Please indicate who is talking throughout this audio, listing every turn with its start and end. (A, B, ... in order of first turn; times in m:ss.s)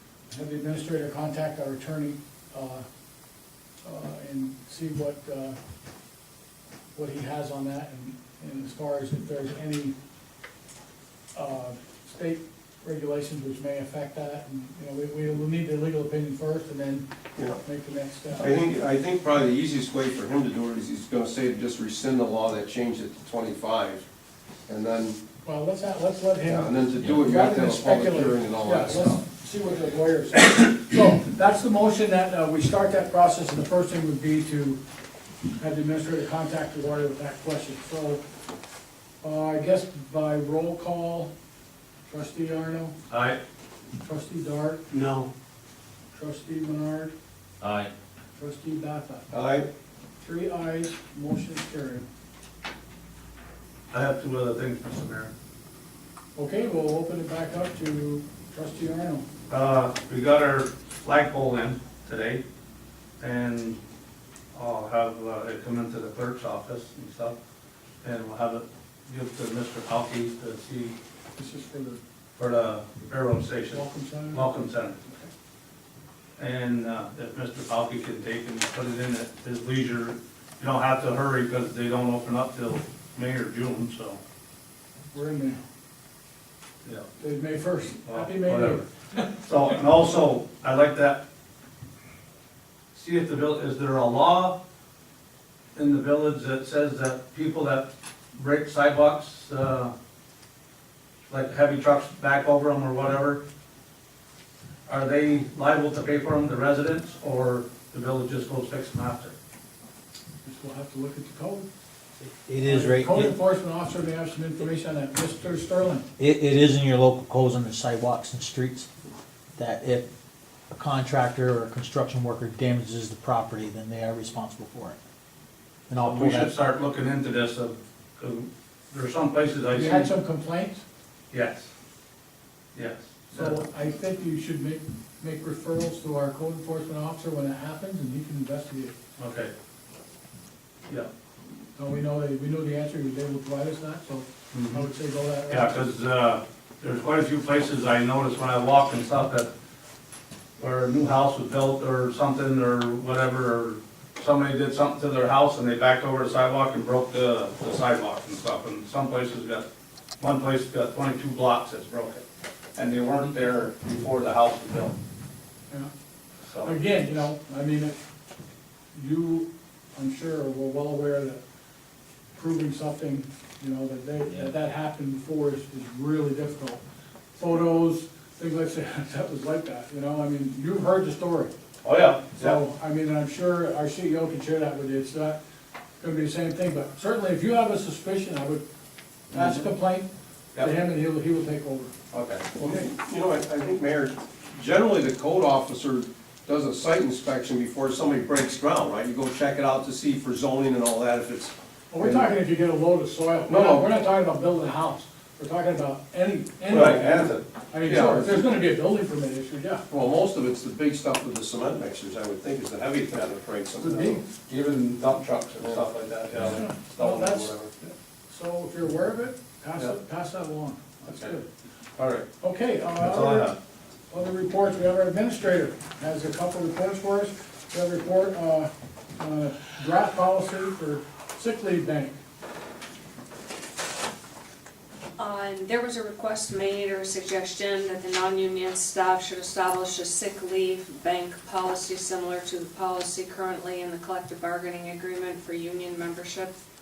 0:00.3-0:02.8 A
0:03.8-0:05.6 A
0:07.0-0:10.0 A
0:11.3-0:18.6 A
0:18.4-0:24.0 B
0:24.7-0:25.2 B
0:25.4-0:34.8 A
0:26.4-0:29.2 B
0:35.6-0:38.2 A
0:39.2-0:41.3 A
0:42.1-0:43.0 A
0:43.1-0:43.4 C
0:44.0-0:44.8 A
0:44.9-0:45.3 C
0:46.1-0:47.1 A
0:48.4-0:49.3 A
0:49.3-0:49.7 B
0:50.2-0:52.0 A
0:53.9-0:55.3 C
0:56.4-0:59.2 A
0:59.5-1:02.4 C
1:03.2-1:03.8 C
1:04.5-1:07.4 C
1:08.0-1:11.0 C
1:11.4-1:12.0 A
1:12.4-1:15.0 C
1:13.7-1:15.3 A
1:16.4-1:24.2 C
1:25.1-1:25.6 A
1:27.2-1:29.3 A
1:28.0-1:28.8 C
1:29.4-1:31.2 C
1:32.9-1:34.6 C
1:35.8-1:39.9 C
1:41.3-1:43.4 C
1:44.9-1:49.4 C
1:50.4-1:51.7 A
1:52.2-1:53.4 D
1:52.6-1:56.1 A
1:56.2-1:58.9 D
1:59.6-2:00.1 D
2:00.7-2:05.0 D
2:05.9-2:06.5 D
2:06.0-2:10.1 C
2:09.7-2:10.8 A
2:11.3-2:11.7 C
2:12.7-2:13.6 C
2:13.3-2:19.0 A
2:19.2-2:19.5 C
2:21.8-2:25.8 A
2:24.5-2:24.8 C
2:25.5-2:29.5 C
2:30.6-2:39.7 C
2:40.2-2:42.2 C
2:42.8-2:45.0 C
2:46.4-2:46.8 C
2:46.6-2:48.0 A
2:48.9-2:51.4 A
2:52.3-2:56.8 A
2:57.4-3:01.5 A
3:01.8-3:02.6 C
3:02.4-3:05.4 A
3:06.0-3:08.6 A
3:09.3-3:10.1 A
3:09.3-3:09.6 C
3:10.6-3:11.9 A
3:12.1-3:12.5 C
3:12.6-3:22.3 B
3:21.9-3:29.8 A
3:23.5-3:23.9 B
3:26.7-3:28.4 B
3:29.9-3:34.2 B
3:33.8-3:37.3 C
3:33.9-3:34.2 A
3:35.6-3:36.6 B
3:36.4-3:41.5 A
3:37.3-3:37.7 B
3:41.0-3:41.4 C
3:42.0-3:42.3 C
3:42.4-3:43.5 A
3:43.0-3:43.6 C
3:44.1-3:52.2 A
3:55.2-4:06.5 E